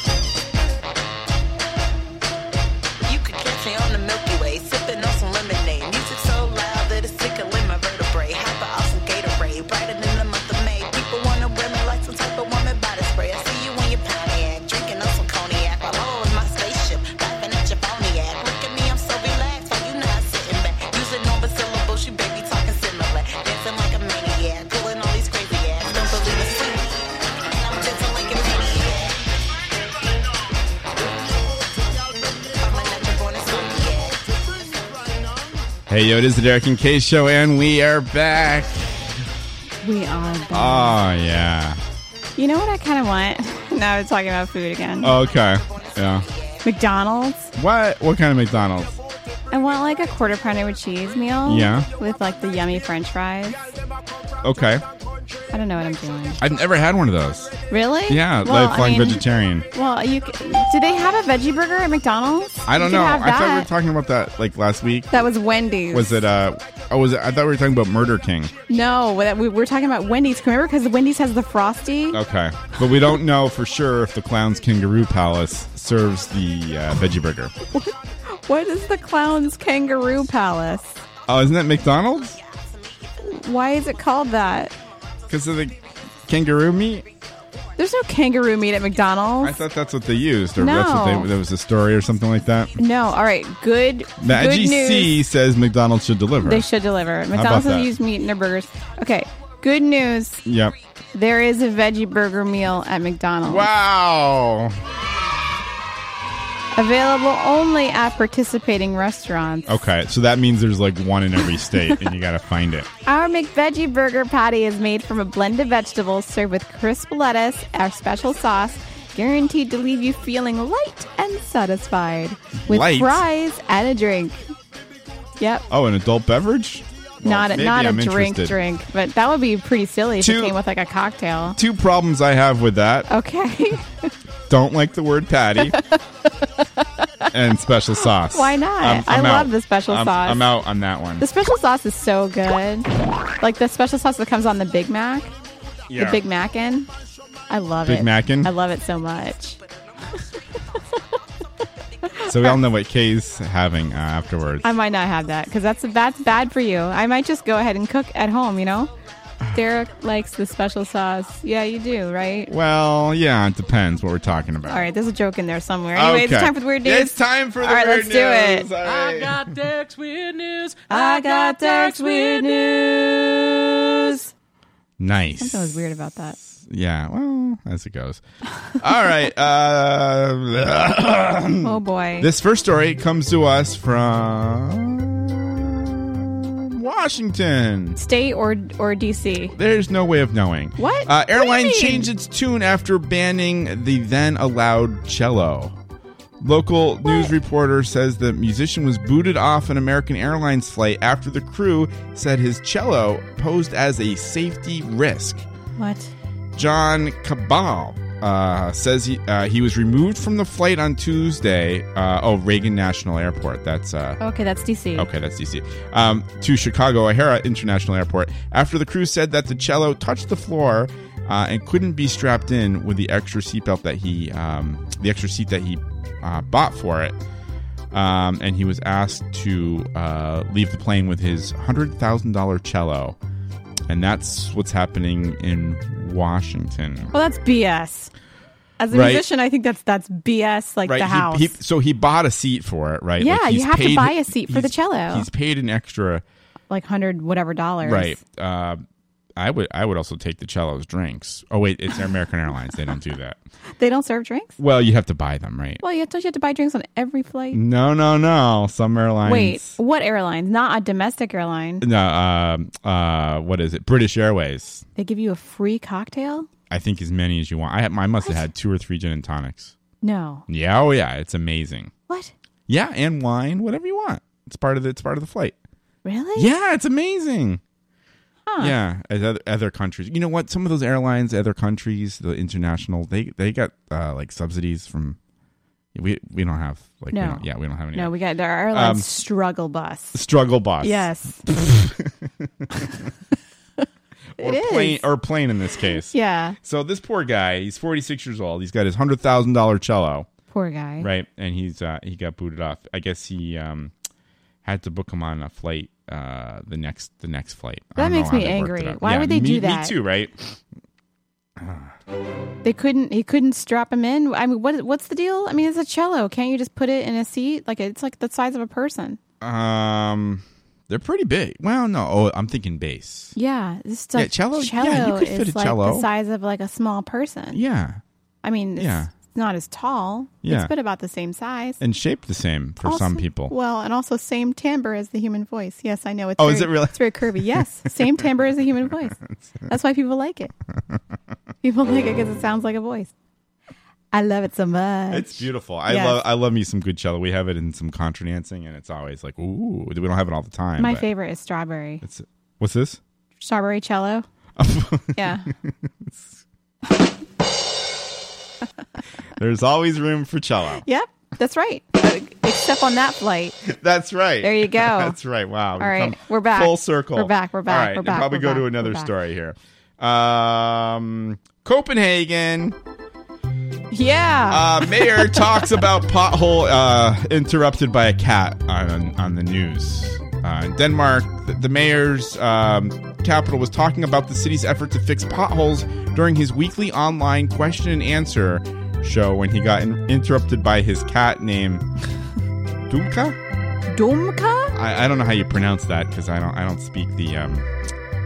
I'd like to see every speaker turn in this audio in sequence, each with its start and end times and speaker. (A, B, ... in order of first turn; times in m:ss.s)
0:03.0-0:29.2 A
0:32.6-0:34.2 A
0:35.9-0:39.0 B
0:39.8-0:41.0 C
0:40.5-0:41.8 B
0:42.4-0:45.1 C
0:45.0-0:46.2 B
0:45.2-0:46.6 A
0:46.6-0:47.5 C
0:47.5-0:49.0 B
0:49.5-0:53.7 C
0:51.4-0:51.9 B
0:54.4-0:54.8 B
0:55.5-0:56.4 C
0:56.4-0:57.5 B
0:57.7-1:03.7 C
0:58.1-0:59.7 B
1:02.7-1:05.2 B
1:05.1-1:06.2 C
1:05.9-1:08.5 B
1:08.7-1:12.2 C
1:12.1-1:17.5 B
1:17.7-1:21.0 C
1:21.2-1:22.4 B
1:23.2-1:24.7 C
1:25.3-1:27.1 B
1:27.8-1:29.6 C
1:29.4-1:32.8 B
1:30.6-1:31.3 C
1:32.8-1:35.2 C
1:34.2-1:36.7 B
1:36.4-1:40.4 C
1:37.3-1:37.9 B
1:40.4-1:40.8 B
1:41.1-1:43.7 C
1:43.4-1:44.8 B
1:46.7-1:49.7 C
1:49.7-1:52.9 B
1:53.0-2:04.5 C
2:02.6-2:03.2 B
2:05.4-2:05.6 C
2:05.7-2:08.6 B
2:07.2-2:11.6 C
2:10.2-2:10.6 B
2:11.6-2:13.1 B
2:13.1-2:14.1 C
2:14.5-2:15.8 B
2:17.3-2:21.2 B
2:18.3-2:20.4 C
2:21.2-2:22.9 C
2:23.4-2:25.3 C
2:25.9-2:26.2 B
2:25.9-2:26.9 C
2:27.5-2:29.6 C
2:27.8-2:28.5 B
2:32.2-2:32.6 C
2:32.2-2:34.7 B
2:34.6-2:38.9 C
2:39.5-2:42.5 C
2:42.5-2:44.9 B
2:44.6-2:48.7 C
2:45.9-2:49.6 B
2:48.8-2:52.5 D
2:50.9-2:54.3 C
2:55.0-2:58.2 B
2:55.4-2:56.4 C
2:58.8-3:08.0 B
3:01.6-3:02.3 C
3:08.0-3:09.5 C
3:09.5-3:15.8 B
3:10.8-3:12.1 C
3:16.4-3:25.4 B
3:17.0-3:17.3 C
3:25.8-3:26.1 C
3:26.5-3:34.2 B
3:34.2-3:35.1 C
3:34.9-3:47.2 B
3:47.9-3:53.2 B
3:53.9-3:57.1 B
3:57.1-3:58.1 C
3:58.8-4:01.6 C
3:58.9-3:59.3 B
4:00.8-4:06.2 B
4:03.2-4:05.3 C
4:06.7-4:08.2 C
4:07.8-4:08.8 B
4:09.4-4:13.4 B
4:13.8-4:14.6 C
4:14.6-4:15.8 B
4:15.8-4:17.6 C
4:17.5-4:19.8 B
4:19.2-4:21.8 C
4:21.8-4:24.8 B
4:25.0-4:26.5 C
4:26.7-4:29.7 B
4:30.0-4:30.4 C
4:30.5-4:31.9 B
4:32.7-4:35.6 B
4:36.0-4:36.5 C
4:36.3-4:37.6 B
4:38.5-4:38.8 C
4:38.6-4:45.2 B
4:45.9-4:48.1 B
4:47.1-4:50.2 C
4:48.7-4:49.0 B
4:50.1-4:53.0 B
4:50.8-4:51.4 C
4:54.4-5:00.3 B
4:54.4-4:55.1 C
4:56.1-4:56.6 C
5:00.5-5:01.1 C
5:01.0-5:03.9 B
5:04.6-5:10.4 B
5:08.0-5:09.9 C
5:11.6-5:11.9 B
5:12.6-5:19.2 C
5:19.4-5:23.3 B
5:23.4-5:27.6 C
5:24.1-5:26.1 B
5:27.5-5:28.0 B
5:28.4-5:31.8 C
5:28.8-5:29.1 B
5:30.4-5:30.7 B
5:31.8-5:33.5 B
5:32.8-5:40.5 C
5:36.4-5:38.1 B
5:41.6-5:43.1 C
5:44.1-5:46.2 C
5:45.1-5:51.0 B
5:50.8-5:52.0 C
5:52.0-5:53.0 B
5:53.4-5:54.2 C
5:54.6-5:56.4 B
5:55.1-5:55.5 C
5:59.4-6:00.8 B
6:00.8-6:03.6 C
6:03.6-6:12.8 B
6:04.4-6:05.2 C
6:05.8-6:09.1 C
6:13.9-6:15.7 C
6:14.5-6:31.8 B
6:32.9-6:33.4 B
6:33.9-6:34.7 C
6:34.7-6:37.6 B